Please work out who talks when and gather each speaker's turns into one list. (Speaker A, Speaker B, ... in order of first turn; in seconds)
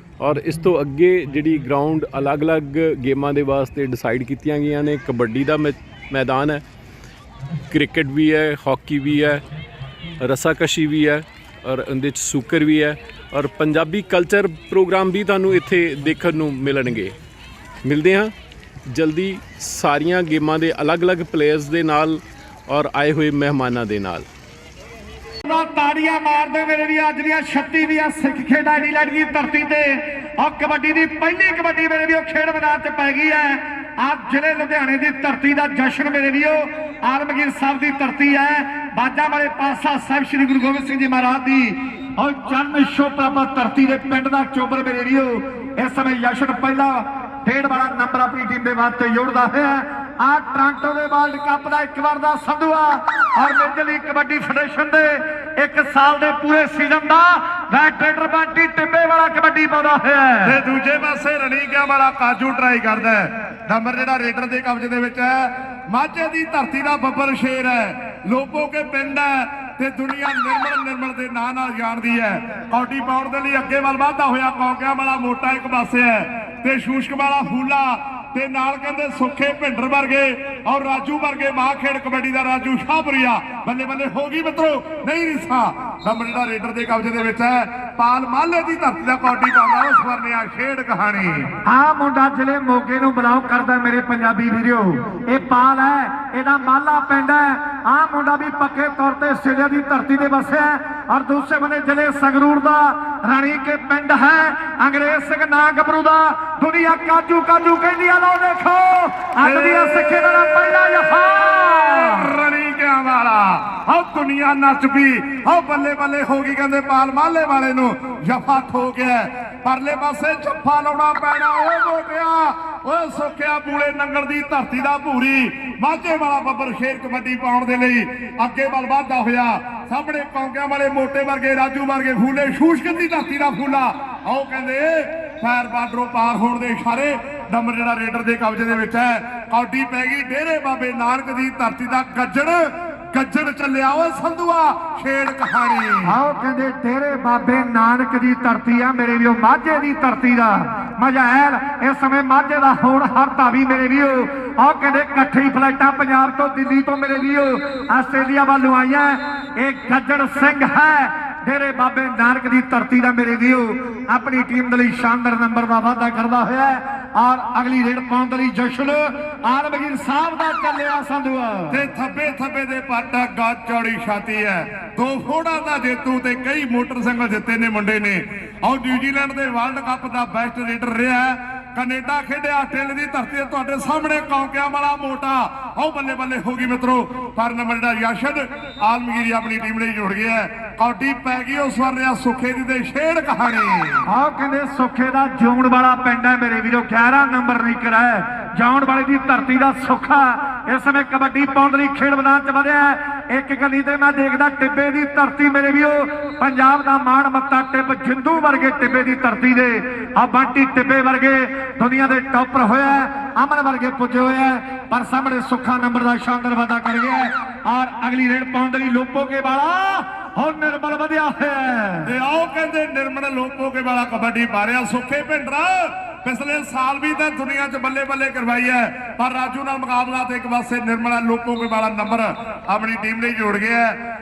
Speaker A: 0.2-6.6, 7.7-9.4, 10.2-17.1, 17.8-18.3, 18.9-24.2
Speaker B: 25.4-60.6, 91.7-112.3, 146.0-171.8, 194.1-222.1
Speaker C: 60.4-65.3, 65.9-91.4, 109.4-142.6, 143.1-146.1, 171.7-194.0, 222.0-233.8